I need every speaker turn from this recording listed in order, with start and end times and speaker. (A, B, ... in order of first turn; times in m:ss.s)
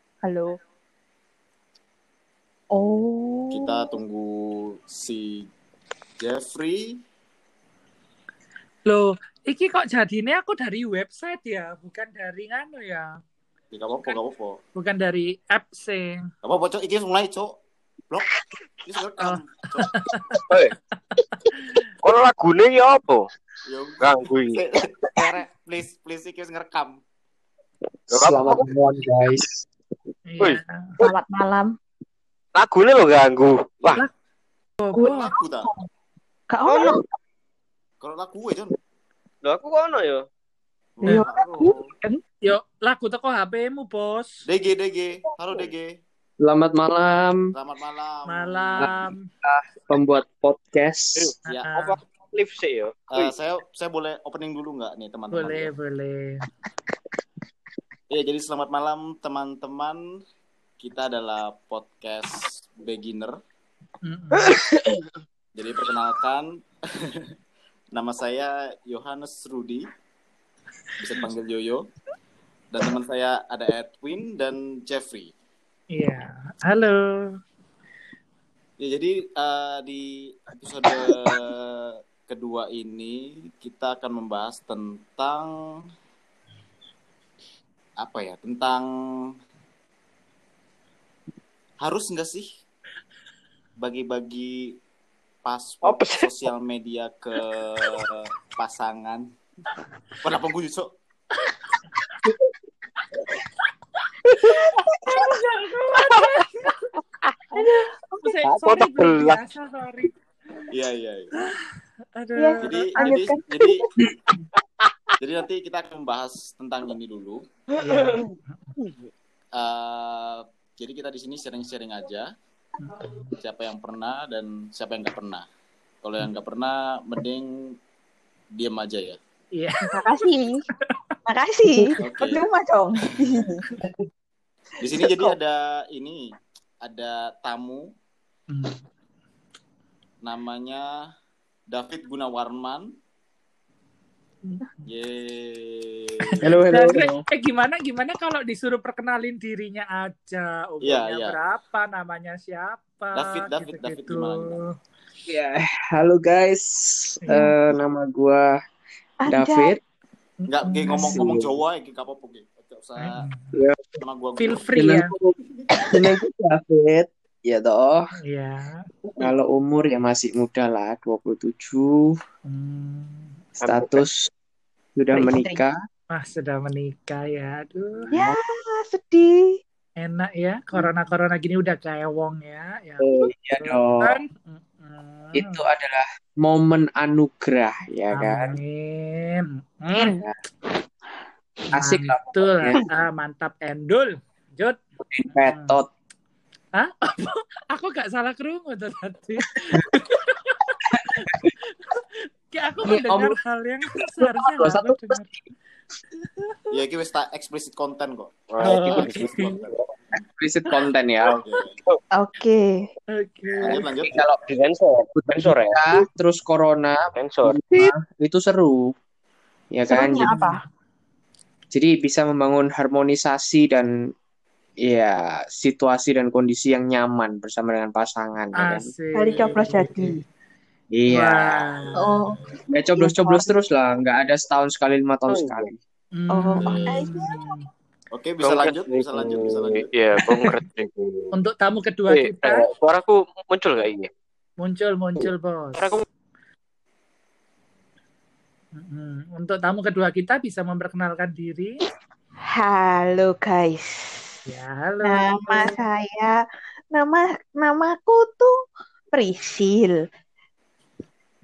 0:00.2-0:00.6 A
0:02.7-0:03.9 A
0:03.5-0:05.5 B
0:06.2-0:07.0 B
0:08.9-0:13.2 C
0:13.7-0:14.6 B
0:14.8-0:16.3 C
0:16.4-0:17.6 B
0:18.1-0:20.4 B
0:19.2-0:20.4 C
0:20.5-0:20.8 D
0:22.0-0:23.3 D
0:23.6-0:27.0 B
0:24.0-0:24.6 D
0:28.1-0:28.7 D
0:28.1-0:29.6 E
0:30.3-0:30.9 C
0:30.4-0:31.1 D
0:31.0-0:31.7 A
0:32.6-0:34.0 D
0:34.8-0:35.3 C
0:34.9-0:35.9 A
0:35.0-0:35.7 B
0:36.5-0:37.0 A
0:36.7-0:37.0 D
0:38.0-0:38.8 B
0:39.4-0:40.3 D
0:41.0-0:41.9 B
0:41.0-0:41.8 A
0:41.1-0:41.3 C
0:42.0-0:44.4 C
0:44.5-0:45.9 B
0:46.4-0:47.5 E
0:47.5-0:49.0 B
0:48.3-0:49.2 C
0:49.4-0:51.3 E
0:51.2-0:53.3 D
0:51.6-0:52.0 C
0:53.1-0:55.7 B
0:55.3-0:56.4 C
0:58.1-1:00.0 B
1:00.8-1:03.4 B
1:04.0-1:04.5 C
1:04.4-1:05.1 D
1:05.6-1:07.3 B
1:07.9-1:09.9 B
1:11.0-1:11.9 B
1:12.7-1:15.3 B
1:15.9-1:17.4 C
1:18.8-1:25.5 B
1:28.0-1:28.9 B
1:31.8-1:32.5 B
1:33.8-1:34.8 B
1:35.4-1:39.3 B
1:35.8-1:36.3 D
1:40.2-1:40.9 B
1:44.5-1:45.3 A
1:45.1-1:46.9 C
1:47.5-1:48.3 A
1:48.2-1:50.1 C
1:48.4-1:49.4 D
1:50.7-1:51.4 B
1:51.4-1:53.2 C
1:52.4-1:53.8 A
1:52.6-1:53.8 B
1:55.2-1:57.4 B
1:57.8-1:58.2 D
1:57.8-1:58.2 C
1:58.8-1:59.1 D
1:59.6-2:02.3 B
2:02.8-2:03.3 C
2:03.4-2:05.4 B
2:06.0-2:07.8 B
2:08.6-2:09.2 B
2:09.6-2:10.0 C
2:09.9-2:10.7 A
2:11.3-2:13.7 A
2:12.0-2:12.4 B
2:14.8-2:17.9 B
2:15.1-2:15.3 A
2:18.5-2:18.8 C
2:20.2-2:20.9 B
2:21.7-2:22.9 B
2:24.4-2:24.8 C
2:24.8-2:26.6 B
2:26.3-2:34.7 C
2:26.4-2:27.2 E
2:30.8-2:31.4 B
2:33.1-2:34.6 B
2:35.3-2:38.5 E
2:37.3-2:37.6 A
2:39.2-2:39.8 A
2:39.3-2:39.8 E
2:40.4-2:41.2 C
2:40.5-2:43.3 B
2:41.0-2:41.6 E
2:43.0-2:43.5 C
2:43.5-2:44.0 E
2:44.0-2:44.7 B
2:44.4-2:45.1 C
2:44.8-2:48.0 E
2:48.2-2:48.8 C
2:49.2-2:52.2 E
2:52.5-2:53.3 C
2:53.6-2:54.3 E
2:55.0-2:55.8 E
2:55.1-2:55.6 A
2:56.1-2:58.1 C
2:58.0-2:58.4 E
2:58.1-2:59.6 A
3:00.0-3:05.6 C
3:03.0-3:04.2 E
3:05.3-3:08.6 E
3:08.1-3:10.2 C
3:10.1-3:10.4 E
3:11.7-3:14.8 C
3:11.7-3:12.8 E
3:15.0-3:15.9 E
3:15.4-3:15.8 C
3:16.8-3:25.3 C
3:19.6-3:19.8 E
3:20.9-3:21.5 E
3:22.8-3:23.4 E
3:24.2-3:25.5 E
3:26.2-3:26.7 C
3:26.7-3:29.8 B
3:28.5-3:29.8 D
3:28.6-3:29.6 C
3:30.1-3:31.4 E
3:31.3-3:31.8 B
3:32.2-3:32.9 A
3:33.1-3:33.9 C
3:33.6-3:34.3 B
3:34.0-3:34.4 E
3:34.4-3:35.8 D
3:35.2-3:38.9 E
3:37.2-3:37.6 D
3:39.7-3:40.3 E
3:39.9-3:40.6 A
3:40.3-3:40.6 C
3:41.7-3:43.9 E
3:44.8-3:48.9 E
3:48.6-3:50.1 C
3:49.2-3:50.2 A
3:50.9-3:51.7 E
3:51.1-3:52.2 C
3:51.6-3:52.0 B
3:52.0-3:53.7 A
3:52.7-3:55.7 E
3:55.3-3:55.7 D
3:56.1-3:57.6 C
3:56.3-3:57.6 A
3:56.6-3:57.1 B
3:58.1-3:59.9 B
3:58.4-4:01.3 D
4:01.3-4:02.7 C
4:02.1-4:04.1 D
4:04.6-4:06.0 C
4:05.8-4:06.0 D
4:08.8-4:11.8 C
4:12.5-4:14.4 A
4:14.5-4:15.8 C
4:15.0-4:16.4 A
4:16.9-4:18.5 A
4:19.1-4:20.0 A